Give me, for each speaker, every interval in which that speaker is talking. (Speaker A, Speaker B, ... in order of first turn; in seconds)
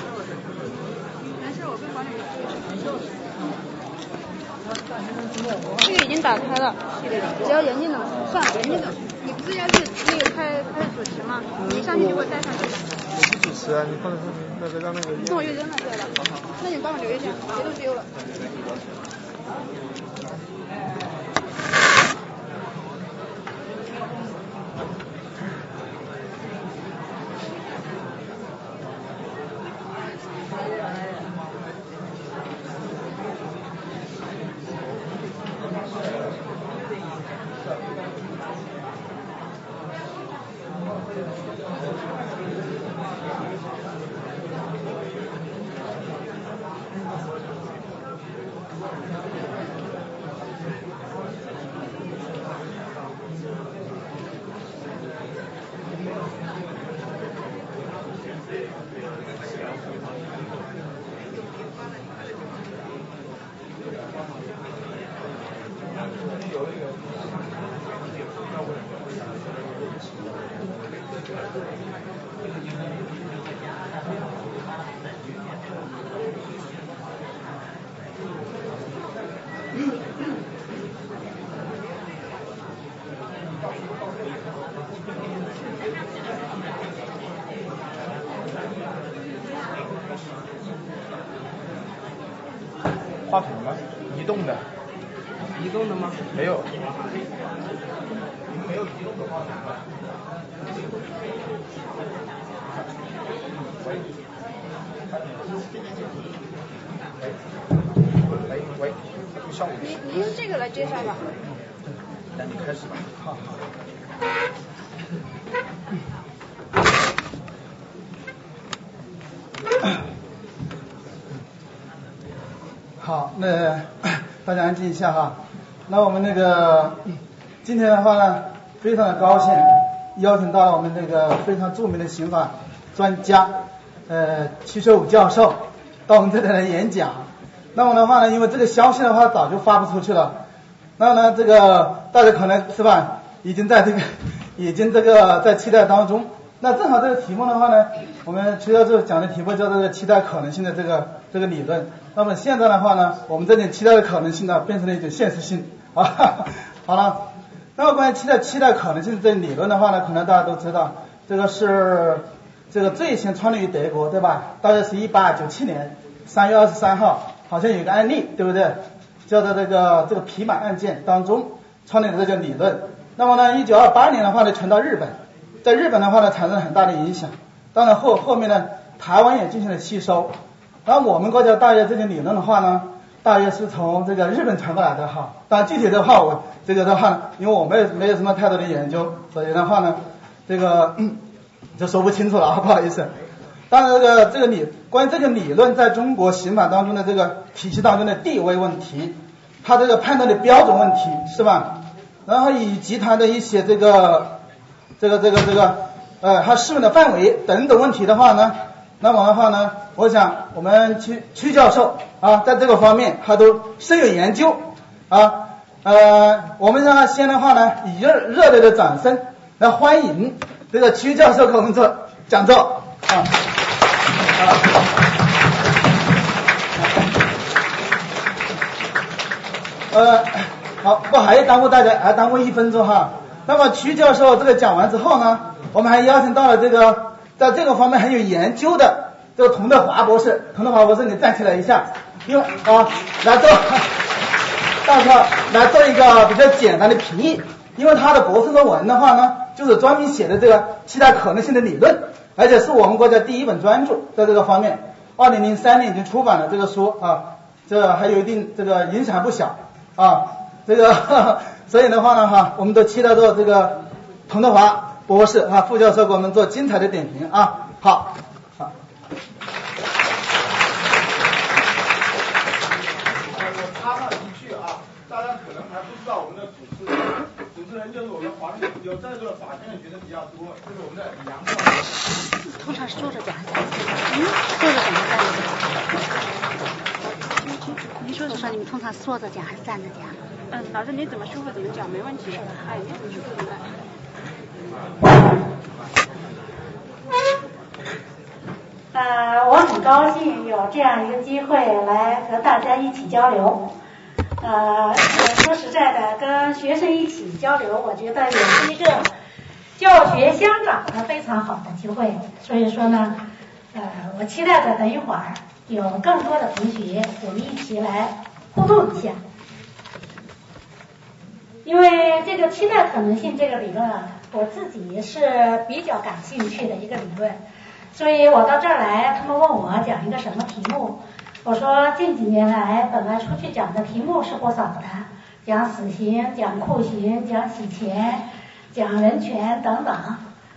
Speaker A: 1.4-3.0, 5.8-12.9, 15.1-18.1, 109.8-111.3, 291.7-292.1, 292.8-293.2
Speaker B: 13.4-14.1, 93.3-94.6, 95.6-96.7, 103.7-104.0, 105.1-105.6, 108.5-109.9, 112.3-113.4
Speaker C: 66.3-67.0, 68.8-69.3, 98.5-99.8, 273.3-281.9
Speaker D: 123.0-133.5, 134.1-140.4, 141.0-157.2, 157.8-191.2, 191.8-193.1, 193.7-201.7, 202.3-204.4, 205.0-223.3, 224.3-224.7, 229.9-244.0, 244.8-268.7
Speaker E: 282.5-285.6, 288.0-290.2, 298.9-303.7, 304.4-309.1, 309.8-313.2, 313.7-319.2, 321.6-327.4, 327.9-340.2